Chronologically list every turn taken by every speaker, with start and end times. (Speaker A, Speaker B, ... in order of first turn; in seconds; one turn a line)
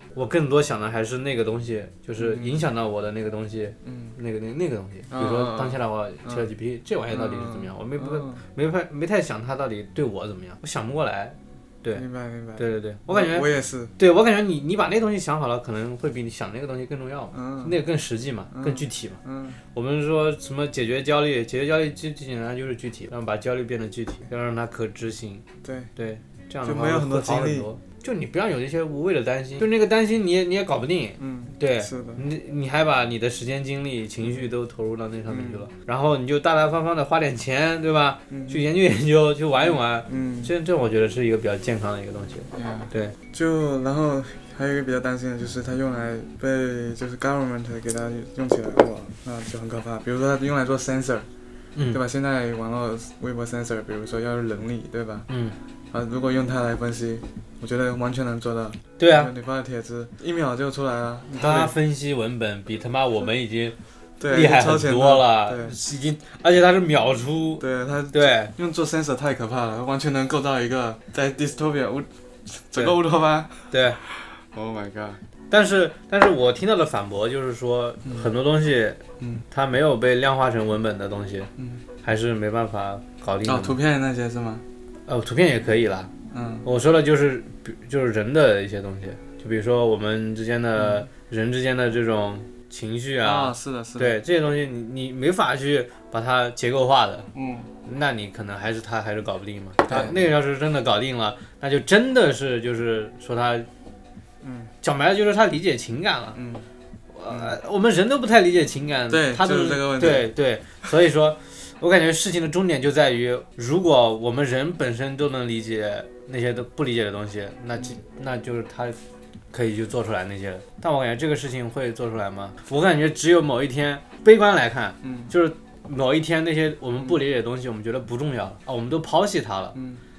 Speaker A: 0.1-12.1
Speaker B: 2.2-2.6
Speaker B: 3.8-4.1
Speaker B: 5.1-6.5
Speaker B: 7.1-8.4
Speaker B: 11.9-13.9
Speaker A: 12.6-13.4
Speaker A: 14.0-19.2
Speaker B: 17.3-17.8
Speaker B: 18.5-19.6
Speaker A: 19.7-25.4
Speaker B: 25.6-25.9
Speaker A: 25.9-43.1
Speaker B: 26.6-27.7
Speaker B: 31.2-32.2
Speaker B: 35.3-35.7
Speaker B: 38.3-38.7
Speaker B: 39.6-40.5
Speaker B: 42.5-51.3
Speaker A: 51.8-52.0
Speaker B: 51.9-55.3
Speaker A: 55.3-55.5
Speaker B: 55.9-61.7
Speaker A: 59.0-59.3
Speaker A: 61.3-63.8
Speaker B: 64.2-65.8
Speaker A: 64.3-68.5
Speaker B: 67.6-75.2
Speaker A: 73.7-74.0
Speaker A: 75.5-81.5
Speaker A: 82.0-83.8
Speaker B: 83.4-84.6
Speaker A: 85.1-86.1
Speaker B: 86.3-86.7
Speaker A: 86.6-97.3
Speaker B: 90.8-91.0
Speaker B: 93.2-94.2
Speaker B: 97.3-97.7
Speaker A: 97.8-103.7
Speaker B: 99.9-100.2
Speaker B: 104.4-104.7
Speaker A: 104.8-106.4
Speaker B: 106.3-106.7
Speaker A: 107.1-119.0
Speaker B: 107.3-107.5
Speaker B: 109.1-110.3
Speaker A: 119.5-129.8
Speaker B: 125.0-125.3
Speaker B: 129.7-130.0